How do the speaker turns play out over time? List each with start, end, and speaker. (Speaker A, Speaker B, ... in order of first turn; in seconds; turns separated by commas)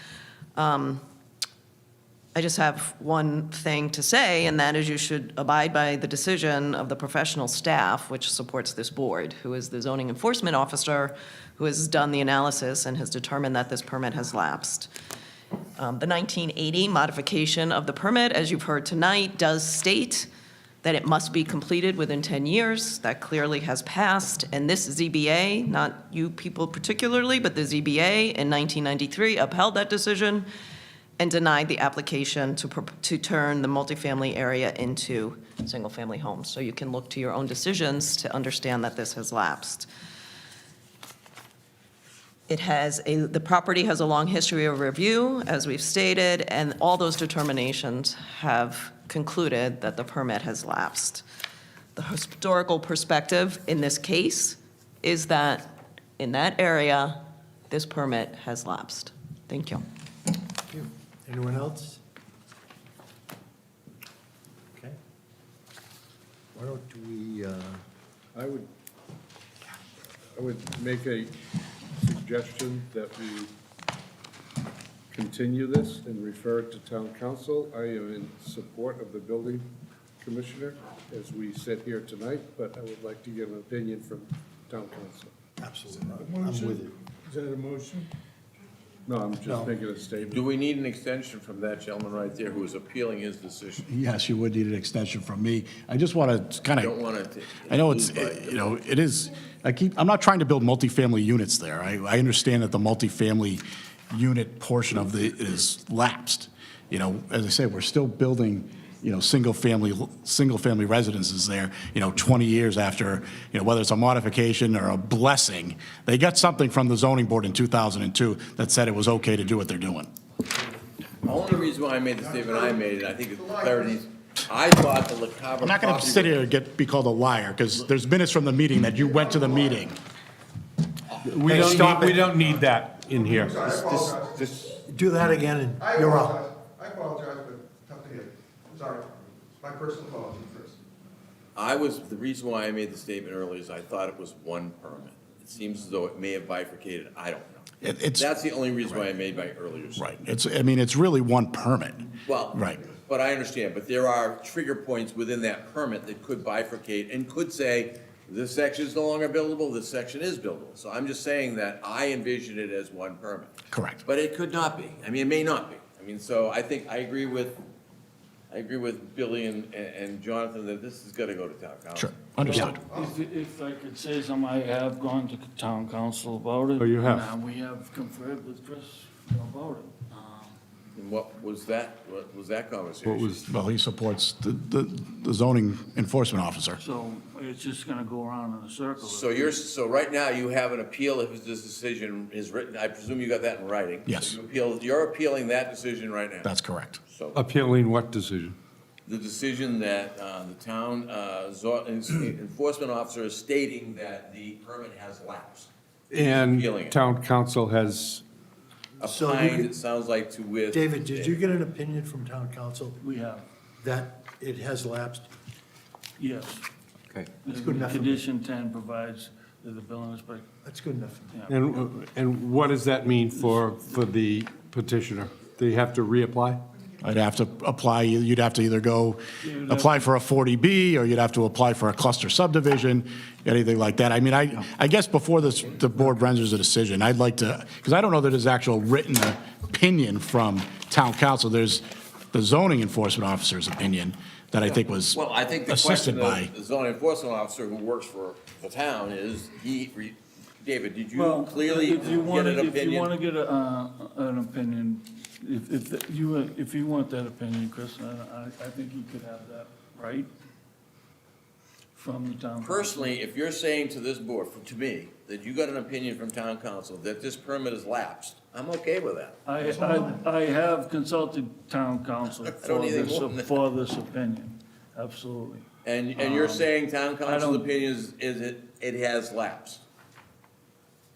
Speaker A: 0.6-1.0, Speaker A: 2.3-14.9, Speaker A: 15.8-20.3, Speaker A: 20.8-30.5, Speaker A: 31.2-39.9, Speaker A: 42.5-51.2, Speaker A: 51.9-59.8, Speaker B: 60.7-62.0, Speaker B: 66.5-67.8, Speaker C: 68.3-68.7, Speaker C: 70.3-71.3, Speaker C: 71.9-73.5, Speaker C: 75.1-79.6, Speaker C: 80.2-85.3, Speaker B: 85.6-86.9, Speaker C: 86.2-88.1, Speaker C: 89.0-90.4, Speaker B: 89.4-89.8, Speaker D: 90.3-93.9, Speaker E: 93.9-96.9, Speaker D: 96.8-98.7, Speaker E: 97.7-120.1, Speaker D: 121.2-126.4, Speaker F: 122.2-122.8, Speaker F: 123.4-123.9, Speaker E: 125.6-130.0, Speaker F: 129.0-129.8, Speaker G: 131.2-134.6, Speaker E: 131.5-132.3, Speaker B: 131.5-132.0, Speaker F: 133.2-134.4, Speaker B: 134.7-136.5, Speaker F: 135.8-140.8, Speaker D: 141.6-150.1, Speaker E: 147.8-148.3, Speaker E: 149.9-152.8, Speaker D: 152.2-167.6, Speaker E: 163.7-164.0, Speaker D: 168.5-172.6, Speaker E: 171.9-172.8, Speaker H: 172.5-180.6, Speaker G: 176.8-177.2, Speaker D: 180.9-183.4, Speaker G: 183.0-183.4, Speaker E: 183.5-186.8, Speaker H: 186.8-189.6, Speaker D: 189.0-196.5, Speaker E: 194.1-194.4, Speaker E: 196.4-197.0, Speaker D: 197.1-197.4, Speaker G: 197.3-198.6, Speaker D: 199.1-207.1, Speaker G: 206.1-208.2, Speaker B: 209.0-209.7, Speaker D: 209.0-211.5, Speaker B: 210.7-213.0, Speaker H: 213.0-213.4, Speaker B: 213.8-215.3, Speaker H: 216.2-216.6, Speaker H: 217.4-220.4, Speaker B: 217.5-218.2, Speaker B: 220.6-221.3, Speaker H: 221.3-221.6, Speaker G: 221.5-226.6, Speaker H: 223.3-223.9, Speaker E: 227.0-246.5, Speaker H: 229.4-230.1, Speaker D: 244.6-253.1, Speaker H: 251.1-260.3, Speaker H: 261.9-263.1, Speaker D: 262.6-269.4, Speaker H: 269.4-276.7, Speaker B: 269.6-270.2, Speaker D: 272.4-273.6, Speaker D: 275.8-279.8, Speaker H: 277.2-277.7